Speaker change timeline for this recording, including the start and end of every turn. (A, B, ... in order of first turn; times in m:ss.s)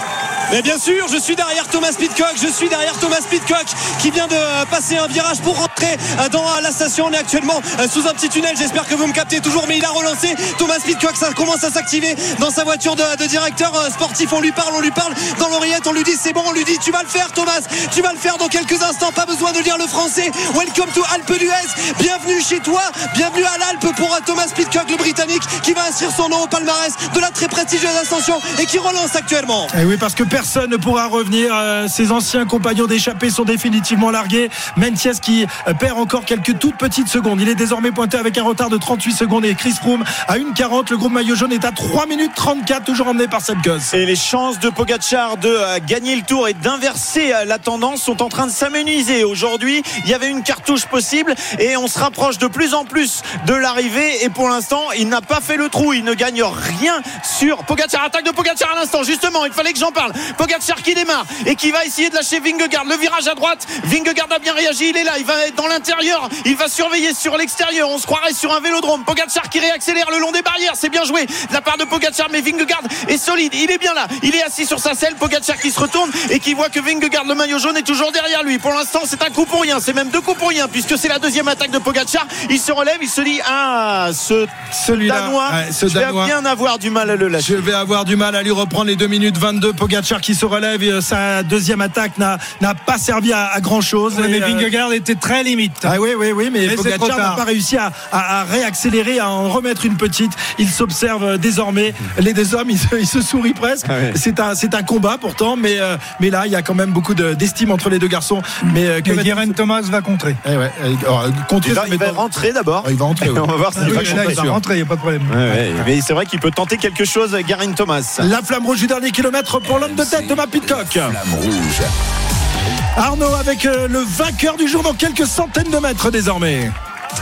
0:00.5-0:29.7 A
0:29.7-0:44.0 B
0:43.9-1:27.6 C
1:24.7-1:26.3 B
1:27.4-1:34.7 B
1:34.1-1:36.0 D
1:35.8-1:49.6 B
1:36.6-1:37.4 D
1:43.9-1:44.1 C
1:49.0-1:50.4 D
1:50.4-1:52.2 B
1:51.6-1:54.6 C
1:52.8-1:54.6 B
1:53.8-1:55.6 D
1:55.3-1:58.3 C
1:58.2-2:01.2 B
1:59.6-2:01.9 E
2:03.0-2:06.7 B